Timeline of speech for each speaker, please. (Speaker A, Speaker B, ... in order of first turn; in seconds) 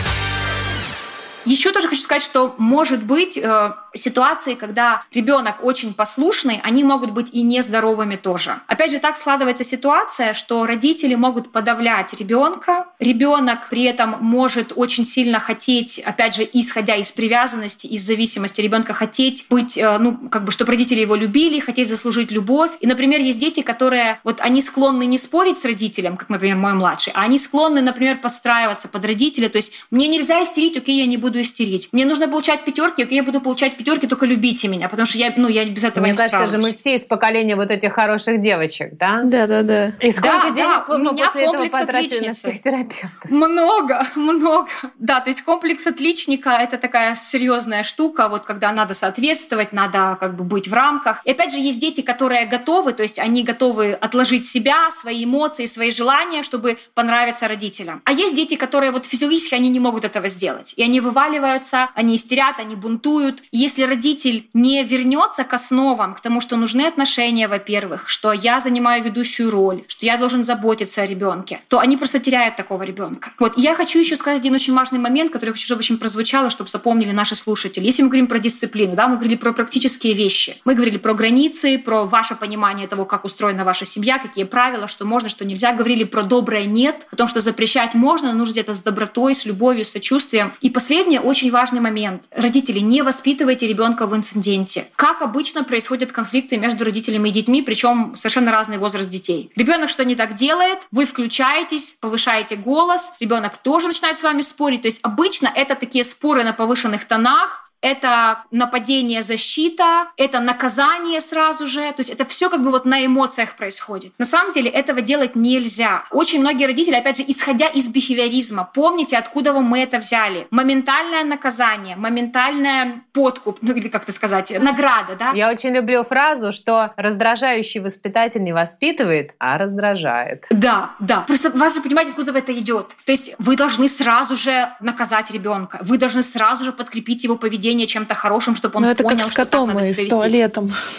Speaker A: 1.4-36.7, 40.1-42.6, 43.3-125.4, 130.5-140.3
Speaker B: 35.9-39.3, 40.0-43.3, 125.3-130.5
Speaker C: 39.2-40.0, 138.8-140.7